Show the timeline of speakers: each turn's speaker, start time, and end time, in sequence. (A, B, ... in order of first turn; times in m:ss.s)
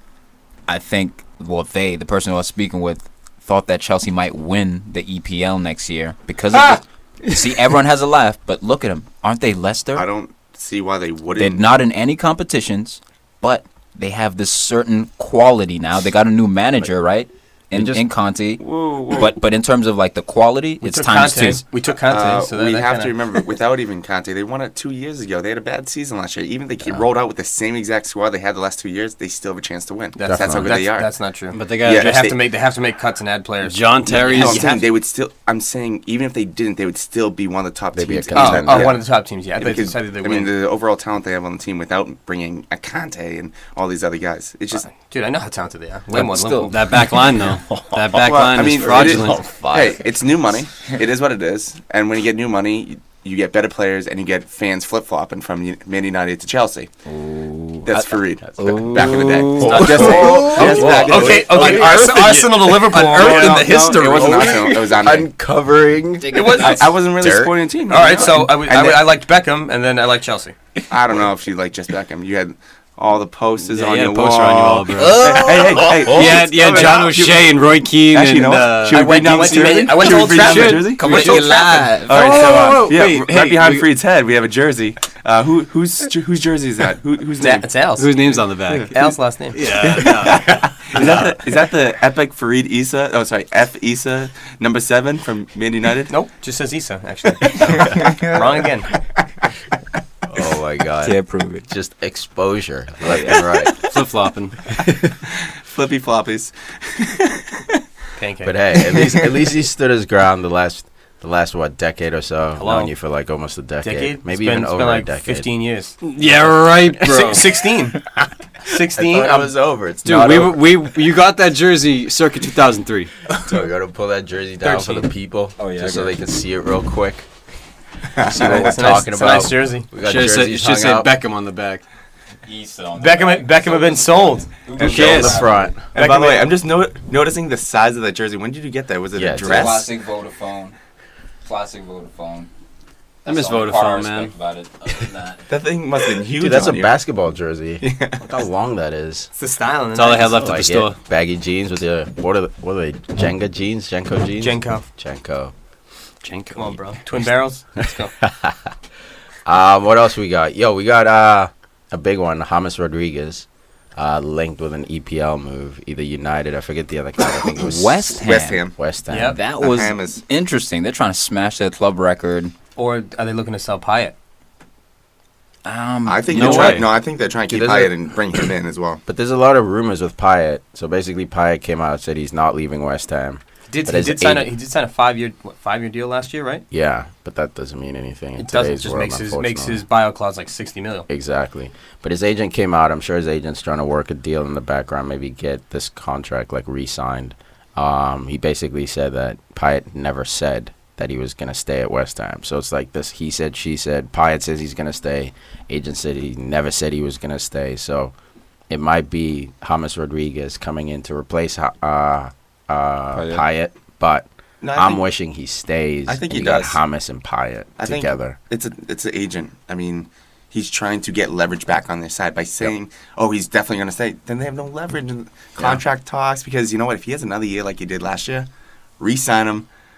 0:00.7-0:10.1 A
0:10.0-0:11.7 B
0:11.4-0:21.6 A
0:17.7-0:18.0 C
0:18.6-0:19.4 B
0:20.8-0:23.2 D
0:22.1-0:31.1 B
0:30.2-0:34.8 D
0:30.2-0:30.8 C
0:31.5-0:32.4 E
0:31.8-0:32.4 B
0:33.6-0:34.7 E
0:34.1-0:39.0 B
0:37.9-0:39.0 C
0:38.3-0:40.5 D
0:39.6-0:44.9 B
0:44.9-0:46.8 D
0:46.1-0:47.0 A
0:46.7-0:49.4 E
0:47.7-0:50.0 C
0:48.2-0:56.9 B
0:57.0-1:00.9 A
0:57.8-1:05.3 B
0:58.6-1:02.3 C
0:59.7-1:04.3 E
0:59.8-1:04.4 D
1:03.0-1:07.6 C
1:06.3-1:09.0 B
1:06.3-1:06.9 D
1:06.4-1:06.8 A
1:07.9-1:10.6 D
1:10.9-1:27.8 B
1:13.7-1:23.9 E
1:15.0-1:17.2 C
1:18.8-1:21.8 D
1:21.2-1:22.5 A
1:22.4-1:22.8 C
1:27.4-1:28.2 D
1:28.0-1:29.0 E
1:28.9-1:29.7 D
1:29.5-1:31.4 E
1:29.7-1:36.1 B
1:36.1-1:38.9 D
1:37.9-1:38.2 A
1:40.3-1:43.8 C
1:41.0-1:41.7 A
1:43.2-1:44.7 E
1:45.2-1:47.8 B
1:48.2-1:48.6 D
1:48.4-1:55.5 C
1:48.7-1:49.4 B
1:52.6-1:52.9 D
1:53.8-1:56.0 D
1:56.0-1:57.6 E
1:57.0-1:58.0 D
1:58.6-1:59.5 D
1:58.9-2:00.6 C
2:00.0-2:03.1 E
2:03.4-2:07.3 C
2:04.6-2:05.0 E
2:05.6-2:06.2 A
2:08.2-2:08.7 B
2:08.2-2:11.1 C
2:08.4-2:09.9 D
2:10.0-2:11.8 E
2:12.5-2:15.7 A
2:13.0-2:14.5 D
2:14.8-2:15.8 C
2:14.8-2:15.4 E
2:15.9-2:19.9 B
2:16.0-2:16.5 D
2:19.2-2:19.8 C
2:19.4-2:20.8 A
2:21.4-2:22.5 A
2:23.2-2:25.4 A
2:23.3-2:24.3 E
2:25.5-2:26.9 B
2:26.4-2:29.3 C
2:27.8-2:28.2 B
2:29.4-2:30.4 D
2:29.9-2:31.0 E
2:30.2-2:35.5 C
2:34.4-2:34.8 D
2:36.2-2:37.0 E
2:36.5-2:38.1 D
2:38.2-2:38.7 C
2:39.5-2:48.2 C
2:47.5-2:52.5 A
2:48.2-2:48.8 B
2:48.8-2:49.4 C
2:49.1-2:49.4 D
2:49.6-2:50.2 B
2:52.8-2:54.2 D
2:55.6-2:56.8 A
2:56.1-2:59.0 B
2:56.3-2:56.9 E
2:57.5-2:58.4 C
2:59.1-3:04.5 C
3:03.7-3:06.6 D
3:06.7-3:09.8 C
3:08.4-3:11.1 D
3:11.1-3:28.1 C
3:28.7-3:38.4 C
3:33.1-3:33.4 A
3:34.6-3:35.0 B
3:36.1-3:36.8 B
3:37.8-3:49.7 B